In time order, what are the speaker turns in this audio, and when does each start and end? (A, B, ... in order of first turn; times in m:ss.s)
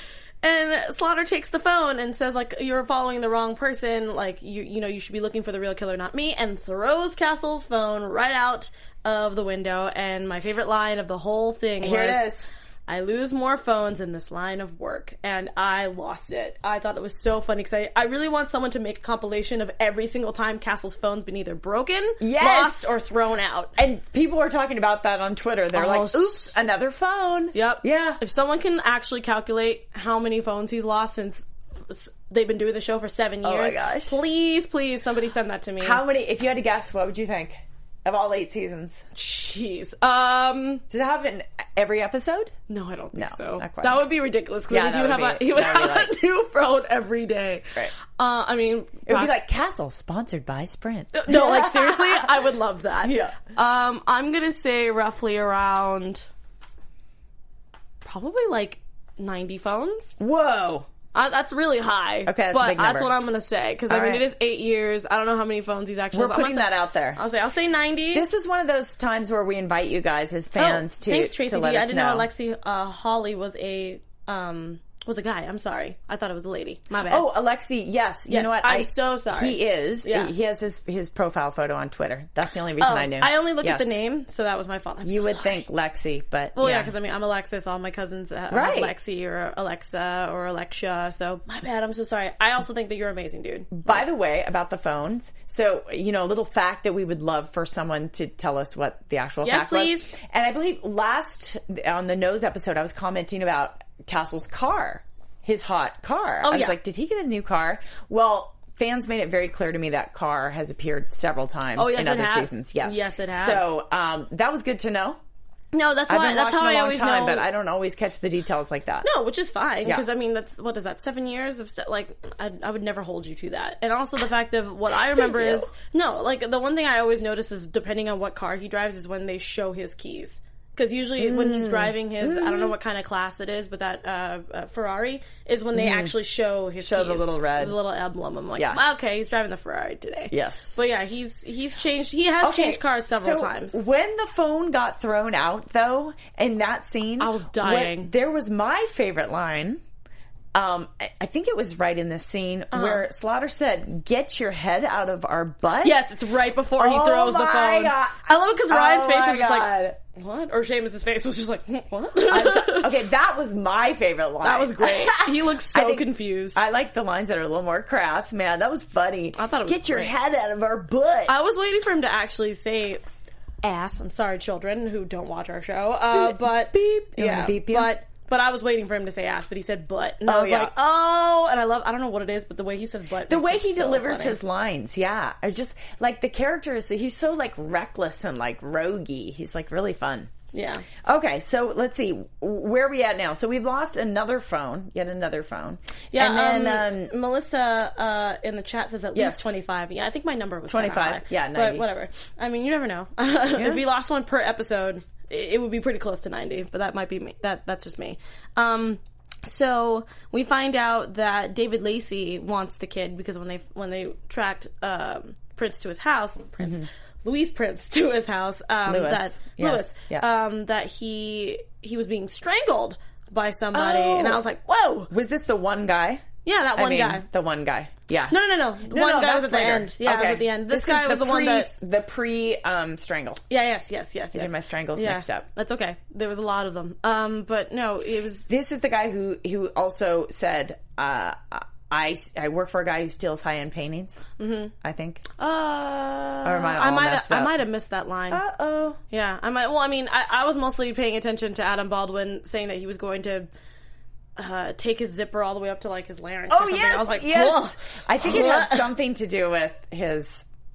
0:00.4-0:12.3 A
0:11.8-0:12.5 B
0:12.9-0:23.7 A
0:22.2-0:23.0 B
0:23.8-0:28.2 B
0:25.7-0:26.5 A
0:27.5-0:36.0 A
0:33.4-0:34.2 B
0:35.8-0:39.0 B
0:39.1-0:40.8 A
0:40.9-0:42.5 B
0:42.7-0:49.3 A
0:43.1-0:44.1 B
0:44.7-0:46.2 B
0:49.1-0:52.4 B
0:51.1-0:56.2 A
0:53.0-0:53.4 B
0:58.0-1:00.2 A
1:00.2-1:00.9 B
1:01.1-1:08.2 A
1:02.2-1:03.1 B
1:03.9-1:04.2 B
1:06.1-1:07.2 B
1:08.1-1:12.3 B
1:10.6-1:17.3 A
1:17.0-1:23.9 B
1:18.3-1:20.3 A
1:22.8-1:25.6 A
1:25.0-1:26.9 B
1:26.6-1:34.0 A
1:28.5-1:28.9 B
1:33.7-1:55.2 B
1:39.4-1:40.1 A
1:46.4-1:46.8 A
1:51.8-1:53.7 A
1:55.7-1:57.5 A
1:56.1-1:59.1 B
1:59.0-2:23.8 A
2:05.1-2:05.7 B
2:11.2-2:12.7 B
2:15.7-2:16.1 B
2:16.8-2:17.8 B
2:20.3-2:21.0 B
2:22.4-2:29.8 B
2:27.2-2:28.1 A
2:30.5-2:36.0 B
2:32.7-2:33.0 A
2:35.8-2:42.9 A
2:36.8-2:40.0 B
2:42.3-2:51.4 B
2:44.4-2:46.6 A
2:49.4-2:50.1 A
2:51.3-2:53.0 A
2:53.6-3:04.4 A
2:56.1-2:57.9 B
3:00.2-3:00.7 B
3:03.3-3:10.3 B
3:10.5-3:10.9 A
3:11.0-3:17.1 B
3:16.1-3:45.1 A
3:19.1-3:19.5 B
3:20.7-3:21.8 B
3:23.6-3:23.8 B
3:36.6-3:36.8 B
3:38.9-3:40.2 B
3:43.7-3:44.4 B
3:45.1-3:53.4 B
3:46.4-3:47.2 A
3:48.3-3:51.7 A
3:53.5-3:58.5 A
3:54.3-3:55.4 B
3:58.5-4:04.2 B
4:04.4-4:04.7 A
4:04.8-4:05.2 B
4:05.4-4:08.4 A
4:06.4-4:07.5 B
4:08.3-4:09.0 B
4:09.1-4:13.5 A
4:14.4-4:18.9 A
4:16.5-4:20.4 B